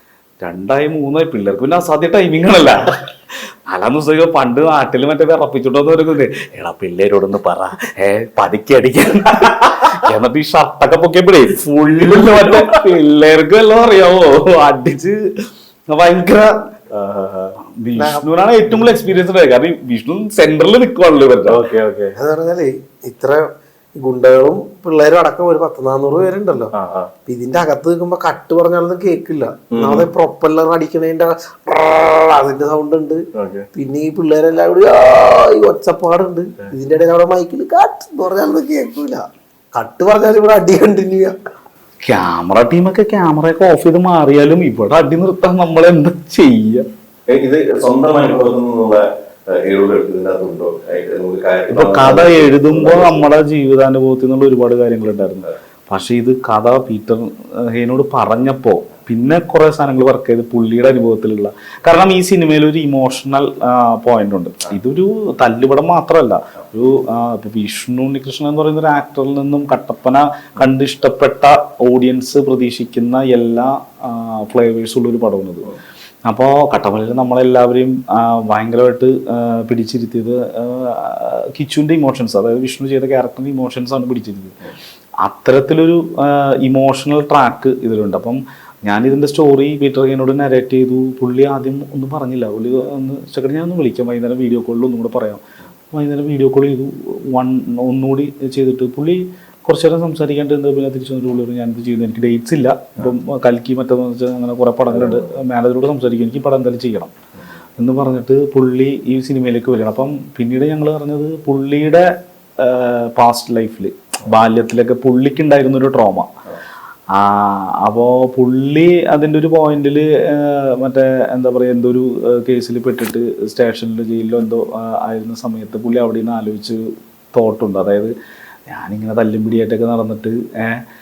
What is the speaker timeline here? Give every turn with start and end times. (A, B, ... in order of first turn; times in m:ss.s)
0:00.4-0:16.7 A
0:12.0-0:12.9 B
0:16.9-0:17.6 B
0:17.8-0:21.6 A
0:18.0-0:18.3 C
0:21.5-0:22.2 B
0:22.2-0:23.5 C
0:24.0-0:26.7 C
0:26.7-0:27.1 B
0:27.3-0:41.4 C
0:29.7-0:30.1 B
0:33.4-0:33.7 B
0:42.0-0:46.9 A
0:47.3-0:53.3 B
0:51.7-1:15.7 A
1:16.2-1:24.6 A
1:25.2-1:35.4 A
1:35.9-1:47.1 A
1:44.9-1:45.4 B
1:47.8-1:56.3 A
1:57.1-2:08.1 A
2:08.7-2:10.8 A